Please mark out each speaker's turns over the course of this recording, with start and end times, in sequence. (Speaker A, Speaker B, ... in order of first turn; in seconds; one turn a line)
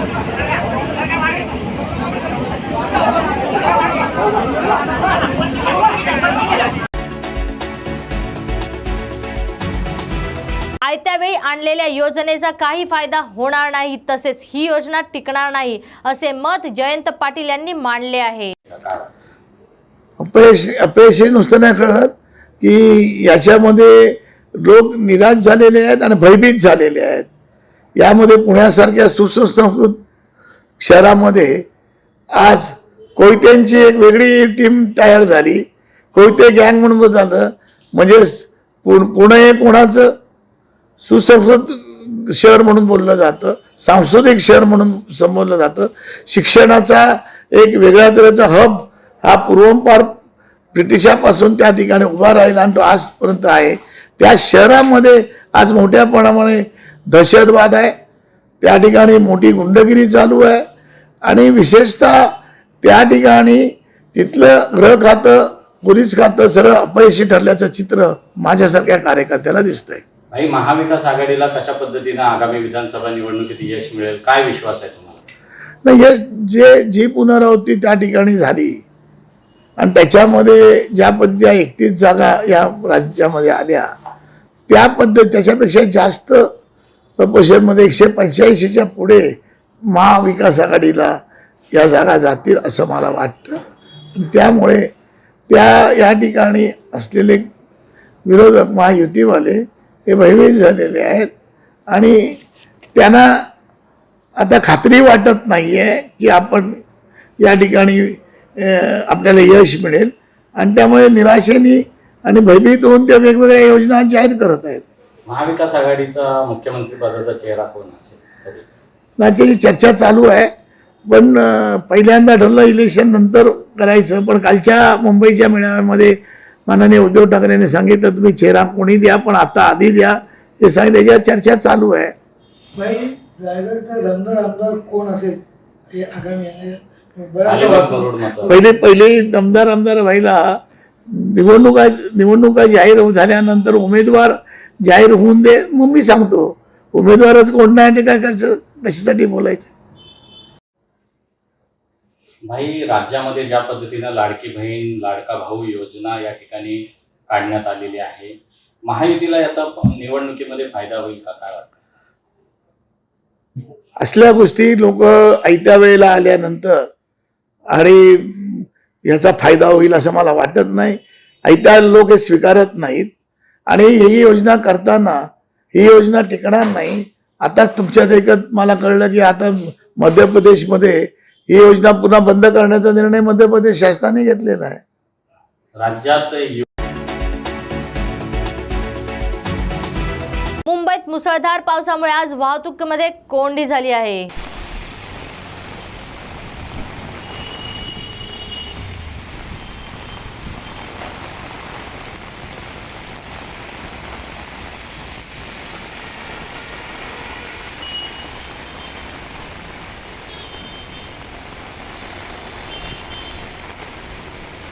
Speaker A: 10.8-18.5
Speaker B: 18.7-19.1
Speaker C: 20.2-27.3
Speaker C: 28.0-30.0
Speaker C: 30.8-31.6
Speaker C: 32.4-40.1
Speaker C: 41.0-50.2
Speaker C: 50.7-58.0
Speaker C: 58.6-60.6
Speaker C: 61.2-70.0
Speaker B: 70.3-75.2
Speaker C: 75.8-78.8
Speaker C: 79.8-83.9
Speaker C: 84.7-86.5
Speaker C: 87.2-89.3
Speaker C: 89.9-91.2
Speaker C: 91.7-93.6
Speaker C: 94.2-94.9
Speaker C: 95.5-97.5
Speaker C: 98.3-101.3
Speaker C: 101.9-102.4
Speaker C: 103.0-103.4
Speaker C: 104.4-106.8
Speaker C: 107.4-114.8
Speaker B: 115.3-118.7
Speaker C: 119.2-120.5
Speaker C: 121.1-126.2
Speaker C: 126.7-132.1
Speaker D: 132.8-135.4
Speaker D: 136.2-136.8
Speaker D: 137.3-138.1
Speaker B: 137.5-138.6
Speaker C: 138.4-140.6
Speaker C: 141.1-149.7
Speaker B: 152.5-158.3
Speaker B: 158.9-161.7
Speaker C: 164.0-166.9
Speaker C: 167.7-173.1
Speaker C: 173.7-175.2
Speaker C: 175.8-184.8
Speaker B: 185.8-186.6
Speaker A: 190.7-194.3